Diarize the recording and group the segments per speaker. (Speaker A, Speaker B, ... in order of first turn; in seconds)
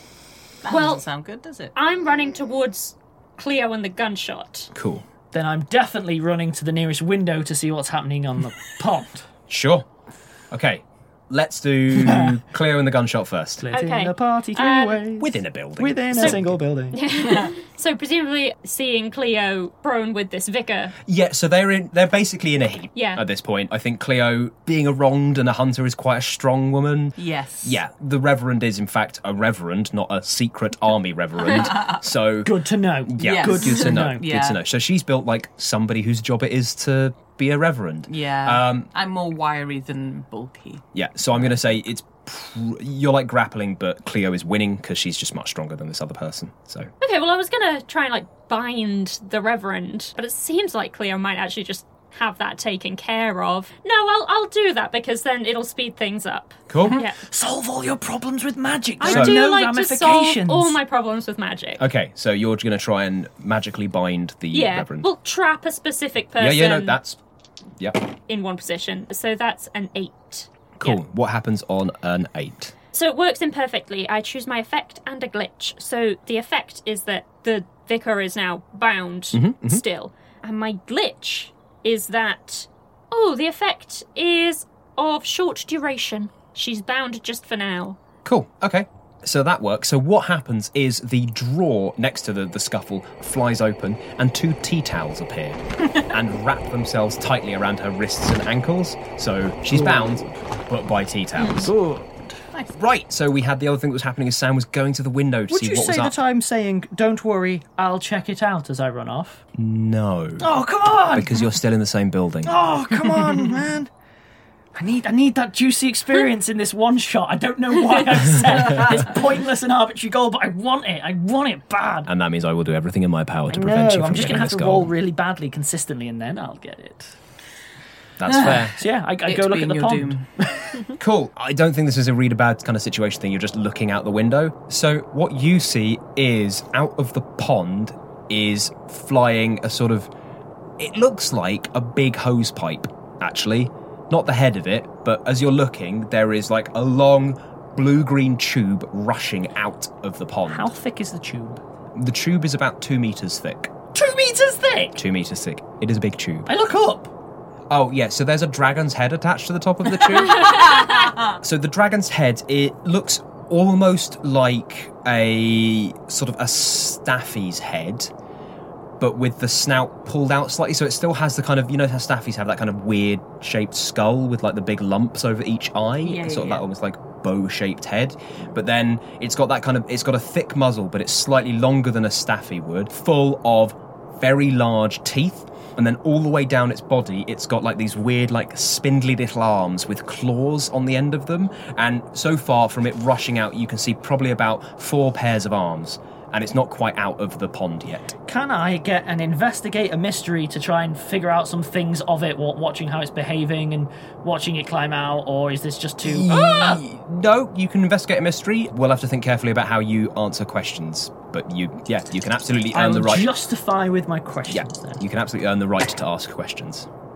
Speaker A: 0.6-1.7, 17.2-17.5, 27.2-27.8, 31.4-32.0, 33.2-34.6, 38.1-41.5, 56.8-57.0, 128.3-128.6, 129.2-130.3, 160.4-161.3, 176.0-176.7
Speaker B: 0.7-1.0, 1.7-4.7, 13.7-15.1, 16.9-21.0, 22.9-23.2, 47.0-57.2, 59.0-61.9, 64.5-67.0, 68.3-71.0, 72.9-88.0
Speaker C: 4.7-5.0, 9.5-9.9, 10.5-13.7, 15.2-16.6, 21.1-32.5, 33.0-38.9, 40.9-46.9, 56.7-57.0, 59.0-59.4, 61.8-65.1, 66.4-67.2, 70.8-72.7, 79.3-79.8, 88.2-101.7, 102.8-106.2, 109.5-110.5, 111.1-112.6, 122.0-124.9, 128.2-128.8, 131.0-140.1, 140.8-150.7, 151.9-153.7, 154.9-156.5, 157.7-160.6, 161.4-168.1, 169.0-198.2, 206.0-213.3, 214.5-216.9
Speaker D: 5.3-9.3, 12.0-12.4, 13.6-17.0, 32.4-34.3, 57.2-60.8, 99.7-100.2, 101.5-102.3, 105.5-109.4, 110.4-111.5, 112.4-113.9, 114.7-122.1, 123.5-127.2, 128.4-130.9, 150.5-151.6, 153.9-155.0, 156.5-157.1, 198.3-206.8, 212.7-215.0